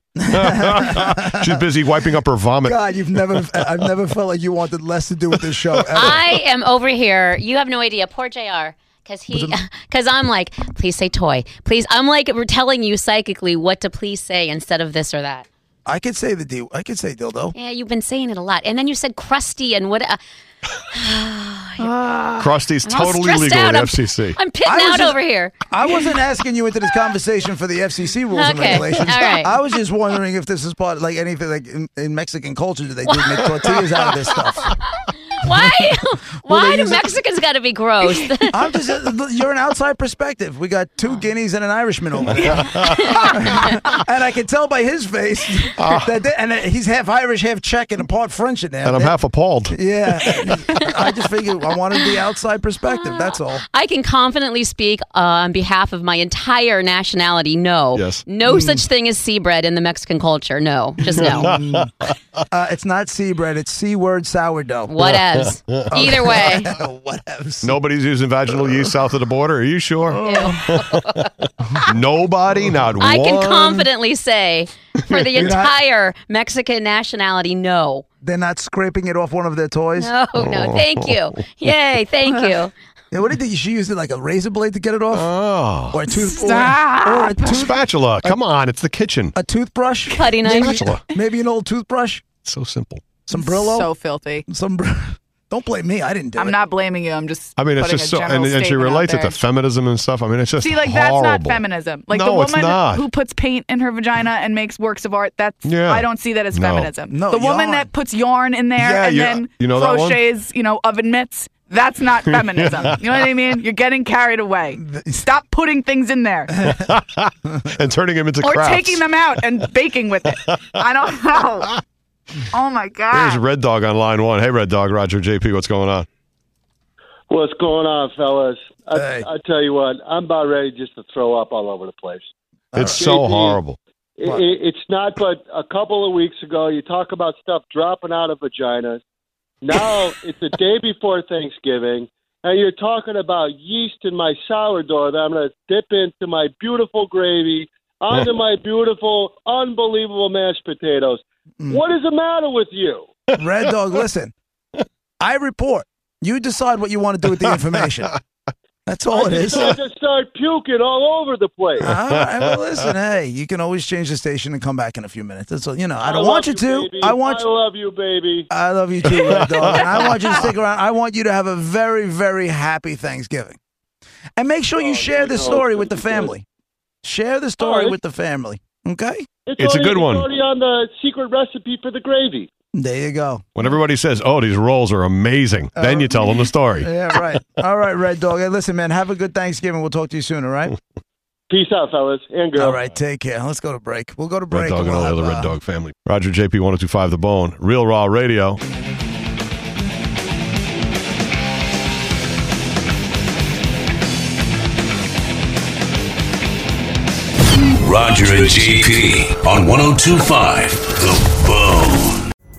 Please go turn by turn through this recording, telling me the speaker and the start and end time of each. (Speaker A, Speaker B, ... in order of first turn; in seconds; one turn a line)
Speaker A: 0.1-1.6
Speaker B: 0.4-2.8
Speaker A: 2.6-6.2
Speaker C: 5.9-15.4
Speaker A: 9.3-9.5
Speaker A: 15.8-17.6
Speaker C: 17.5-20.2
Speaker C: 20.9-21.9
Speaker D: 21.8-22.5
Speaker B: 22.4-24.4
Speaker C: 22.8-25.5
Speaker A: 24.6-34.7
Speaker C: 28.3-29.5
Speaker C: 33.0-33.4
Speaker C: 35.4-38.5
Speaker A: 36.4-37.1
Speaker A: 38.5-49.1
Speaker B: 42.6-43.4
Speaker C: 42.9-43.6
Speaker B: 48.8-50.8
Speaker A: 49.7-53.6
Speaker C: 52.8-61.5
Speaker B: 57.9-58.2
Speaker A: 58.4-58.8
Speaker A: 61.0-61.9
Speaker B: 61.2-62.1
Speaker A: 62.5-65.0
Speaker C: 64.9-66.7
Speaker B: 65.0-66.4
Speaker A: 65.9-67.8
Speaker B: 67.6-71.2
Speaker A: 70.1-70.6
Speaker C: 70.2-71.2
Speaker B: 71.8-73.8
Speaker C: 73.0-78.0
Speaker A: 75.3-75.8
Speaker A: 78.2-80.1
Speaker C: 80.0-82.7
Speaker B: 80.4-81.1
Speaker A: 83.1-85.3
Speaker B: 85.1-86.0
Speaker A: 85.9-88.4
Speaker D: 86.3-87.6
Speaker B: 87.4-89.3
Speaker A: 89.3-92.2
Speaker C: 90.1-90.9
Speaker B: 90.5-91.0
Speaker B: 92.4-93.0
Speaker A: 93.3-93.9
Speaker D: 93.3-94.5
Speaker A: 94.5-96.6
Speaker D: 96.4-99.4
Speaker B: 97.6-103.1
Speaker D: 100.6-116.7
Speaker B: 105.6-106.9
Speaker A: 107.1-107.9
Speaker B: 108.8-110.2
Speaker A: 114.8-115.3
Speaker B: 116.7-119.0
Speaker D: 118.4-121.8
Speaker D: 122.5-123.4
Speaker B: 123.1-126.1
Speaker E: 127.3-132.2
Speaker A: 128.9-129.3
Speaker A: 132.7-133.0
Speaker B: 132.7-133.8
Speaker E: 132.9-133.6
Speaker E: 134.2-139.0
Speaker E: 139.6-153.1
Speaker A: 153.4-154.3
Speaker A: 155.2-158.1
Speaker A: 158.8-159.8
Speaker E: 159.2-161.9
Speaker A: 161.8-167.4
Speaker B: 161.9-162.5
Speaker E: 166.1-168.5
Speaker A: 168.5-173.6
Speaker B: 169.1-170.5
Speaker A: 174.4-176.4
Speaker E: 174.8-176.3
Speaker A: 177.0-179.3
Speaker E: 177.6-177.9
Speaker E: 179.5-182.5
Speaker B: 179.6-180.3
Speaker A: 182.7-183.5
Speaker B: 183.6-186.9
Speaker A: 185.7-190.8
Speaker E: 191.5-192.8
Speaker A: 192.6-195.5
Speaker B: 194.5-198.6
Speaker F: 207.7-212.2